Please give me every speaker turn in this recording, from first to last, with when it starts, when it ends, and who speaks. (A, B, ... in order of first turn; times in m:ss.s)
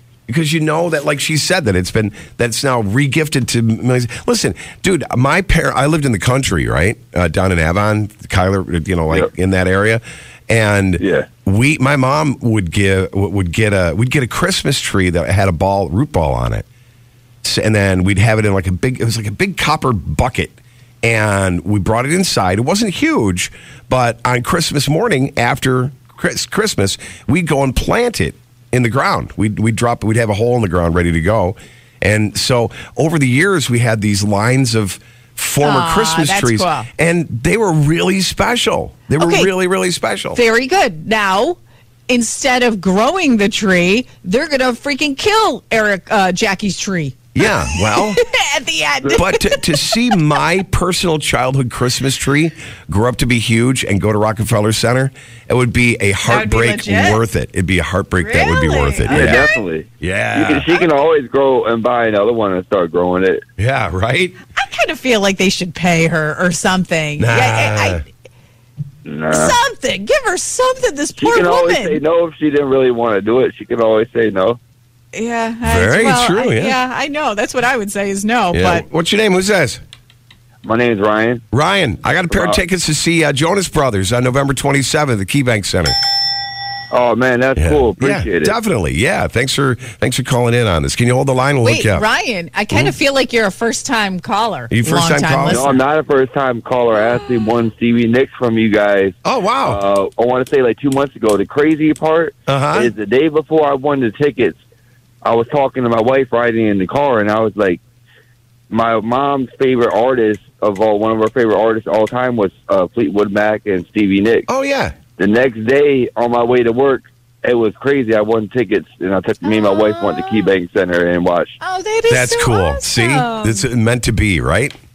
0:00.3-0:16.6 A
0:11.0-0:11.3 B
0:17.4-0:40.4 A
0:35.6-0:36.9 C
0:39.2-0:39.5 C
0:40.3-0:50.4 C
0:47.3-0:48.2 A
0:49.1-0:59.4 A
0:56.2-0:57.2 C
0:58.2-0:59.6 C
0:59.1-1:03.4 B
1:00.0-1:00.8 A
1:03.6-1:04.3 A
1:04.5-1:08.0 C
1:07.2-1:08.0 A
1:09.0-1:09.6 B
1:09.3-1:12.0 C
1:11.2-1:14.6 B
1:15.1-1:18.8 C
1:15.6-1:16.8 A
1:18.5-1:19.8 A
1:20.6-1:21.4 B
1:21.5-1:25.9 A
1:22.3-1:22.6 B
1:26.9-1:28.5 B
1:27.6-1:32.0 A
1:31.6-1:35.8 C
1:34.7-1:35.6 A
1:35.5-1:44.6 B
1:39.2-1:39.8 A
1:42.5-1:42.9 A
1:45.2-1:47.8 B
1:48.7-1:54.5 B
1:54.5-1:54.9 A
1:55.2-2:01.6 B
1:59.4-2:00.5 C
2:01.6-2:03.7 C
2:02.1-2:04.7 A